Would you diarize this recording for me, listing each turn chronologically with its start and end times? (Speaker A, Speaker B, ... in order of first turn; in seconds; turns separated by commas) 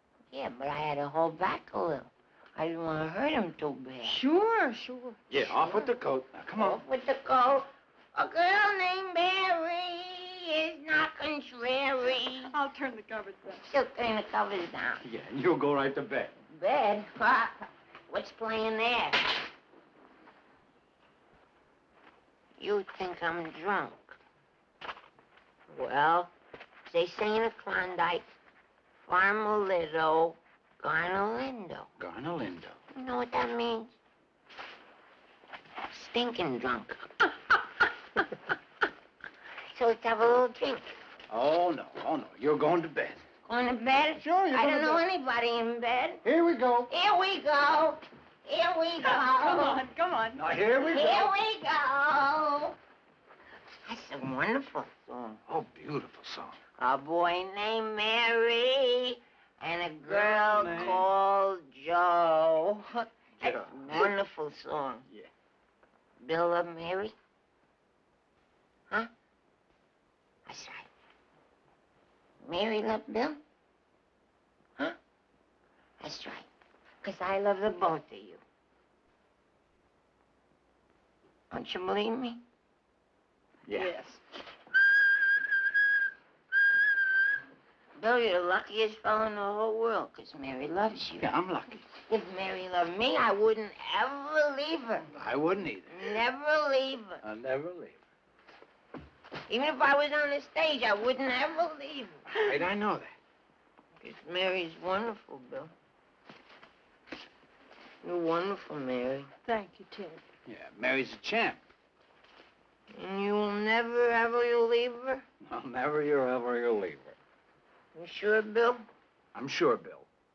Speaker A: 0.3-4.2, Speaker B: 4.0-5.8, Speaker C: 5.3-6.8, Speaker A: 6.5-12.6, Speaker B: 12.5-13.6, Speaker A: 13.6-15.0, Speaker C: 15.0-16.3, Speaker A: 16.5-19.4, Speaker A: 22.6-24.2, Speaker A: 25.7-26.3, Speaker A: 26.9-28.2, Speaker A: 29.1-31.9, Speaker C: 32.0-32.8, Speaker A: 33.0-33.9, Speaker A: 35.9-37.3, Speaker A: 39.7-40.9, Speaker C: 41.3-43.2, Speaker A: 43.5-46.2, Speaker C: 44.2-45.0, Speaker C: 46.2-46.9, Speaker A: 46.9-49.8, Speaker B: 49.0-50.4, Speaker C: 50.3-51.3, Speaker A: 50.8-52.8, Speaker A: 53.9-55.4, Speaker C: 55.5-56.6, Speaker A: 56.8-65.1, Speaker C: 60.0-61.1, Speaker C: 63.4-64.1, Speaker A: 66.2-67.1, Speaker A: 70.5-70.9, Speaker A: 72.4-73.4, Speaker A: 76.0-76.5, Speaker A: 77.0-78.4, Speaker A: 81.5-82.4, Speaker C: 83.7-84.0, Speaker B: 83.7-84.2, Speaker A: 88.0-91.3, Speaker C: 91.2-91.9, Speaker A: 92.1-95.1, Speaker C: 95.1-96.2, Speaker A: 95.9-97.2, Speaker C: 97.2-98.0, Speaker A: 99.5-102.2, Speaker C: 102.3-103.1, Speaker A: 104.0-105.7, Speaker A: 108.0-109.3, Speaker B: 109.5-110.2, Speaker C: 110.5-111.6, Speaker A: 112.9-115.2, Speaker C: 115.4-117.2, Speaker A: 117.9-118.8, Speaker C: 119.3-120.1